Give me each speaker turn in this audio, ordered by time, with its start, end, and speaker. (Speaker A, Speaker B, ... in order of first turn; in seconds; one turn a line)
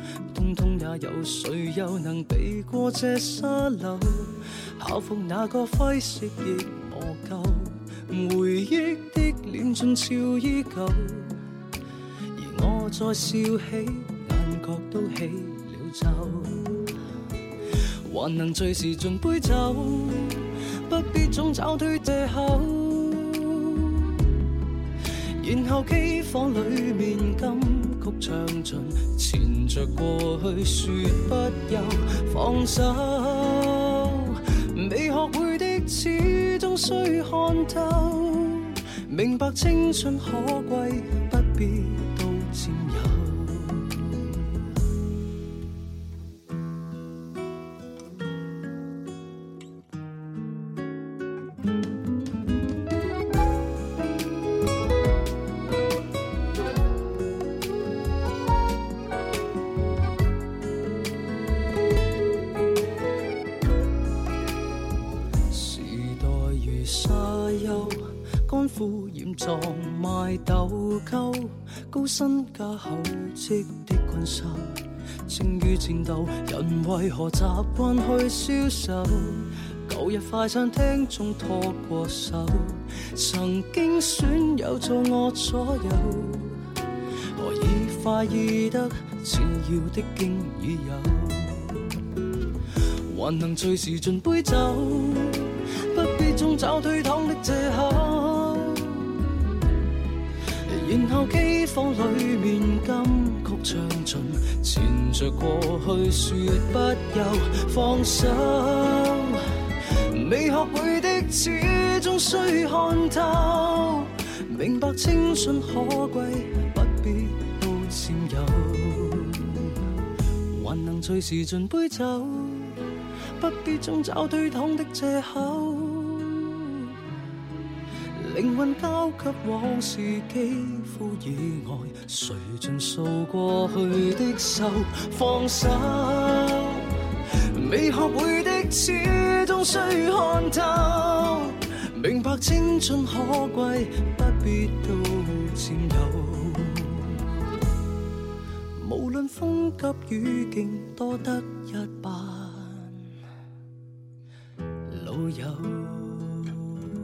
Speaker A: 0.3-11.3
Speaker A: 12.3-16.9
Speaker A: 18.1-23.8
Speaker A: 25.4-44.5
Speaker A: 65.5-86.6
Speaker A: 87.4-91.9
Speaker A: 93.1-99.1
Speaker A: 100.7-109.4
Speaker A: 110.1-119.8
Speaker A: 120.5-122.8
Speaker A: 123.4-126.9
Speaker A: 128.2-136.8
Speaker A: 137.5-147.1
Speaker A: 148.8-153.1
Speaker A: 154.9-156.6